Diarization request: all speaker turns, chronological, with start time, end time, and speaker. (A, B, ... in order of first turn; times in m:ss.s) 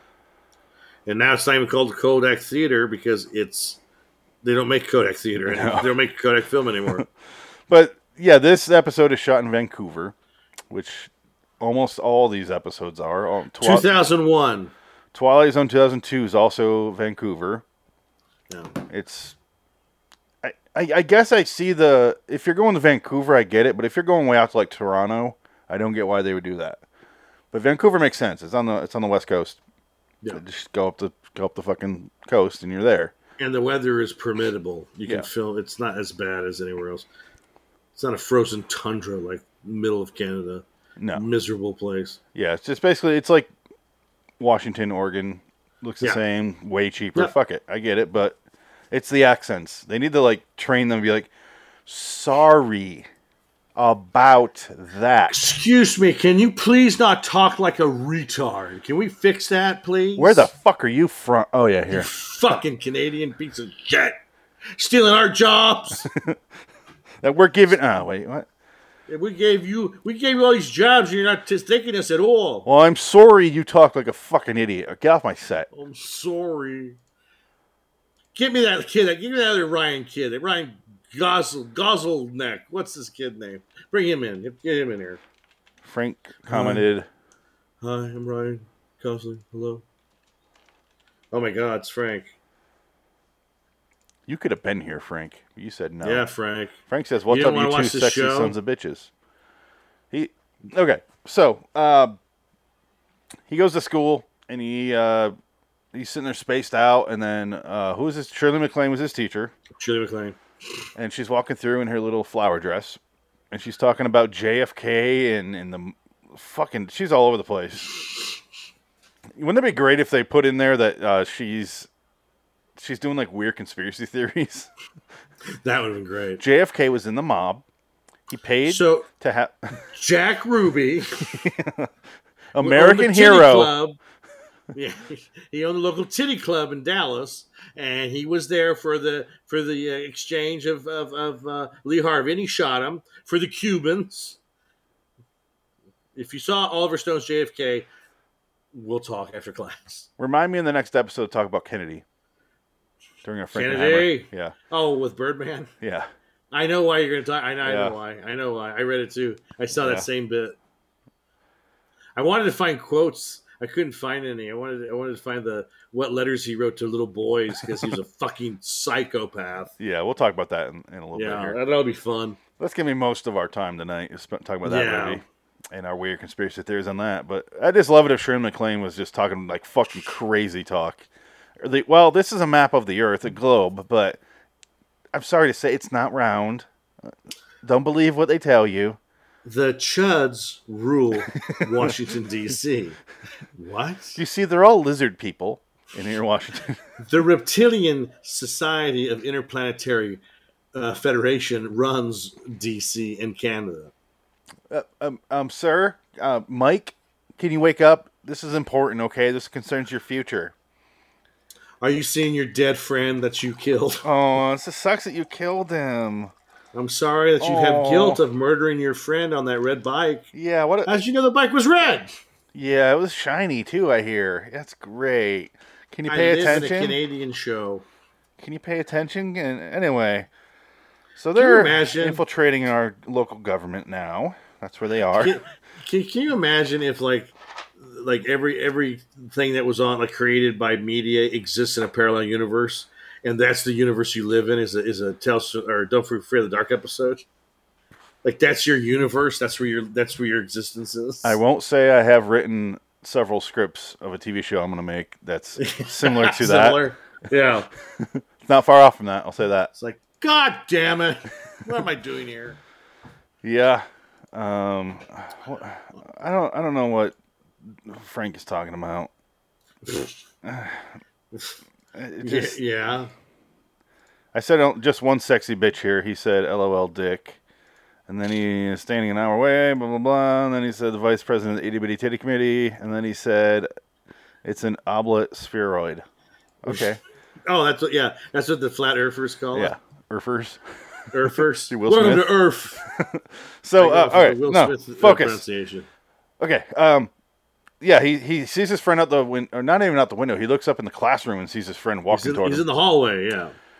0:01.1-0:03.8 A
0:04.4-0:07.0 A
0:05.5-0:05.9 B
0:07.7-0:10.2 B
0:10.7-0:13.9 B
0:13.6-0:14.7 A
0:15.1-0:17.6 B
0:18.5-0:18.8 A
0:18.9-0:19.4 B
0:20.4-0:26.8 B
0:27.5-0:29.6 B
0:30.3-0:33.1 B
0:33.4-0:37.1 A
0:38.0-0:42.2 A
0:41.0-0:41.2 B
0:42.4-0:43.5 B
0:44.4-0:48.4 B
0:48.9-0:51.3 B
0:51.9-0:53.1 B
0:53.8-0:55.4 B
0:55.3-1:00.5 A
1:00.2-1:02.1 B
1:01.9-1:04.2 A
1:04.8-1:06.1 A
1:07.2-1:08.5 B
1:09.1-1:12.7 A
1:12.7-1:15.7 B
1:15.7-1:17.0 A
1:18.4-1:25.2 A
1:25.8-1:27.1 B
1:26.5-1:26.8 A
1:27.8-1:29.8 A
1:31.3-1:32.3 A
1:34.3-1:36.3 B
1:36.0-1:36.8 A
1:36.9-1:39.1 B
1:37.3-1:38.6 A
1:40.1-1:42.2 B
1:43.5-1:45.3 B
1:45.9-1:49.5 B
1:49.8-1:50.4 A
1:51.0-1:53.0 B
1:53.5-1:57.9 B
1:59.4-2:01.9 B
2:02.8-2:04.7 B
2:05.6-2:06.4 A
2:06.4-2:07.6 B
2:08.3-2:09.7 B
2:08.7-2:09.1 A
2:09.9-2:11.5 A
2:11.3-2:11.9 B
2:12.5-2:13.7 B
2:12.6-2:14.0 A
2:14.7-2:24.4 A
2:26.2-2:27.9 A
2:28.7-2:30.1 A
2:30.2-2:32.0 B
2:33.2-2:34.6 B
2:33.5-2:35.7 A
2:35.8-2:36.1 B
2:36.5-2:40.6 A
2:37.6-2:38.0 B
2:39.8-2:40.1 B
2:42.2-2:49.7 A
2:47.6-2:47.9 B
2:49.8-2:51.6 B
2:51.1-2:52.4 A
2:52.6-3:01.1 B
2:54.6-2:55.2 A
3:01.6-3:04.2 B
3:05.1-3:09.0 B
3:09.4-3:13.0 A
3:11.5-3:11.9 B
3:13.6-3:14.2 A
3:14.2-3:16.8 B
3:17.0-3:20.2 A
3:20.8-3:23.9 A
3:24.7-3:30.5 B
3:31.8-3:34.1 A
3:34.0-3:36.3 B
3:36.7-3:40.3 A
3:37.4-3:38.2 B
3:40.3-3:41.0 B
3:40.8-3:42.1 A
3:42.5-3:47.0 B
3:46.1-3:47.8 A
3:48.4-3:50.3 B
3:51.2-3:55.4 B
3:51.4-3:52.2 A
3:55.1-4:07.3 A
4:08.2-4:11.4 A
4:11.2-4:16.8 B
4:15.6-4:17.7 A
4:18.0-4:19.7 B
4:19.8-4:22.6 A
4:23.4-4:27.2 B
4:27.7-4:29.1 B
4:29.9-4:30.1 A
4:30.4-4:31.0 B
4:31.9-4:32.6 B
4:32.2-4:33.1 A
4:34.3-4:37.4 B
4:38.1-4:43.7 B
4:44.4-4:46.0 B
4:46.6-4:47.0 B
4:46.7-4:46.9 A
4:47.5-4:49.7 A
4:49.5-4:50.6 B
4:51.1-4:52.8 A
4:51.2-4:55.4 B
4:53.8-4:55.9 A
4:56.4-4:57.1 B
4:57.8-5:02.6 B
5:02.1-5:03.6 A